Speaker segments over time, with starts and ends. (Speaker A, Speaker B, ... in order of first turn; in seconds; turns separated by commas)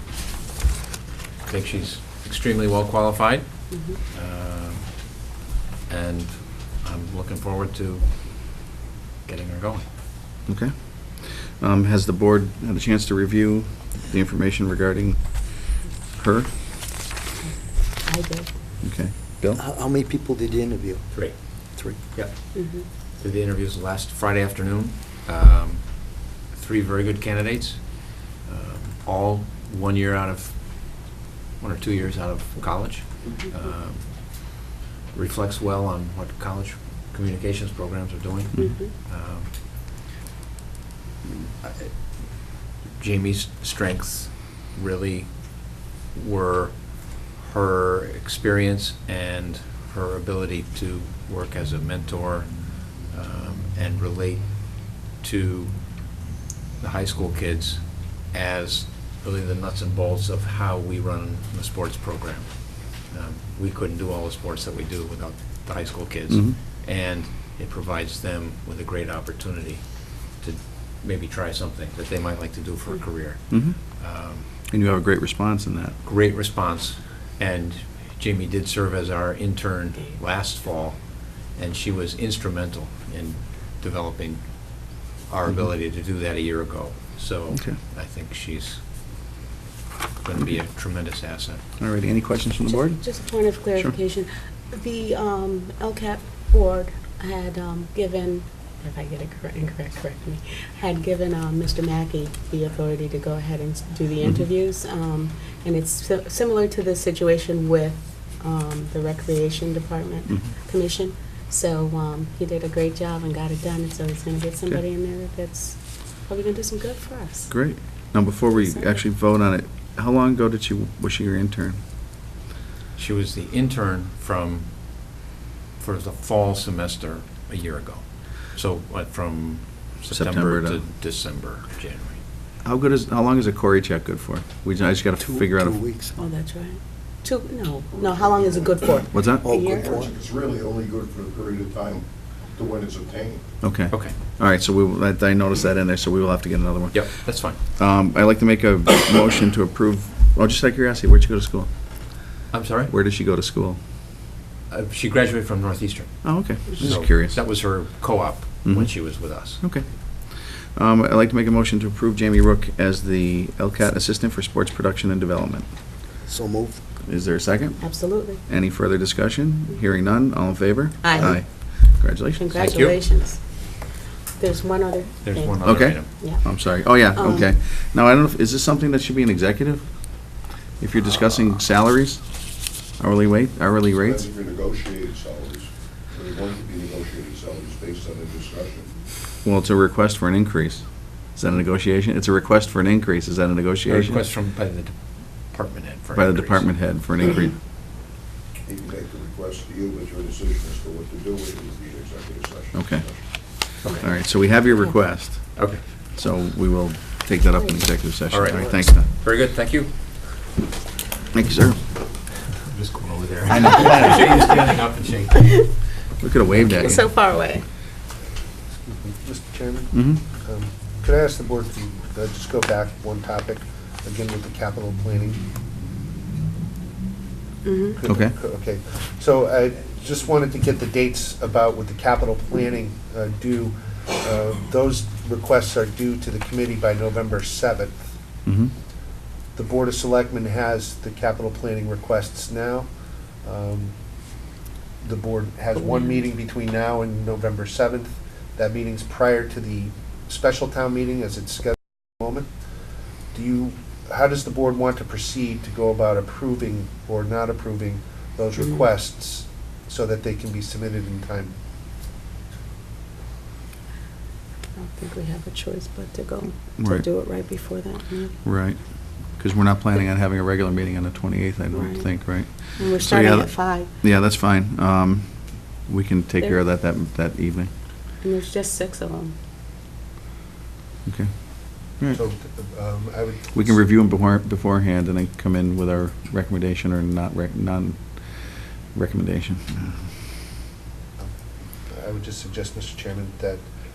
Speaker A: 1.4-5.1, Speaker B: 3.7-4.0, Speaker A: 5.9-8.1, Speaker A: 9.2-9.8, Speaker C: 10.4-16.6, Speaker B: 17.4-18.5, Speaker C: 18.8-19.6, Speaker D: 19.6-22.2, Speaker A: 21.1-31.1, Speaker B: 22.5-22.9, Speaker A: 31.6-39.5, Speaker B: 38.6-38.9, Speaker A: 41.6-41.9, Speaker A: 42.9-56.0, Speaker A: 56.8-74.4, Speaker C: 66.3-66.6, Speaker C: 73.5-73.8, Speaker C: 74.7-76.0, Speaker A: 76.0-81.0, Speaker A: 81.5-84.7, Speaker A: 85.2-88.8, Speaker C: 87.5-87.8, Speaker A: 90.2-91.6, Speaker C: 91.8-93.9, Speaker B: 92.7-117.5, Speaker C: 117.5-121.8, Speaker B: 118.6-119.0, Speaker A: 123.0-124.7, Speaker A: 125.8-132.2, Speaker C: 130.1-130.8, Speaker C: 132.6-135.9, Speaker D: 135.2-136.2, Speaker B: 136.2-139.8, Speaker E: 137.9-143.4, Speaker C: 139.1-139.5, Speaker D: 139.4-140.1, Speaker C: 143.6-153.8, Speaker A: 146.9-147.6, Speaker A: 152.5-152.9, Speaker A: 154.7-159.6, Speaker C: 156.2-157.4, Speaker C: 158.6-165.7, Speaker D: 166.3-166.8, Speaker C: 167.0-172.9, Speaker B: 167.8-168.4, Speaker B: 171.0-171.7, Speaker B: 172.3-173.8, Speaker A: 172.5-173.0, Speaker B: 174.4-177.5, Speaker A: 175.2-176.1, Speaker C: 175.6-184.2, Speaker E: 183.9-188.9, Speaker C: 189.4-194.2, Speaker A: 193.9-196.7, Speaker C: 196.1-197.6, Speaker E: 198.7-203.2, Speaker C: 202.7-203.1, Speaker C: 203.6-209.1, Speaker A: 205.6-205.8, Speaker A: 208.3-209.9, Speaker C: 211.3-211.8, Speaker A: 212.7-215.7, Speaker C: 213.5-214.5, Speaker C: 216.2-217.1, Speaker B: 216.5-217.6, Speaker F: 218.8-225.4, Speaker C: 219.9-220.2, Speaker B: 227.6-228.0, Speaker F: 227.9-238.0, Speaker C: 228.1-228.3, Speaker C: 238.4-238.7, Speaker F: 239.6-242.9, Speaker F: 243.4-243.9, Speaker F: 245.0-252.5, Speaker B: 245.8-246.0, Speaker F: 253.3-261.5, Speaker B: 264.8-268.4, Speaker C: 266.8-267.1, Speaker C: 268.4-277.7, Speaker B: 271.7-273.9, Speaker B: 278.2-279.3, Speaker C: 281.1-282.2, Speaker F: 282.1-283.8, Speaker C: 283.5-289.9, Speaker F: 291.9-293.6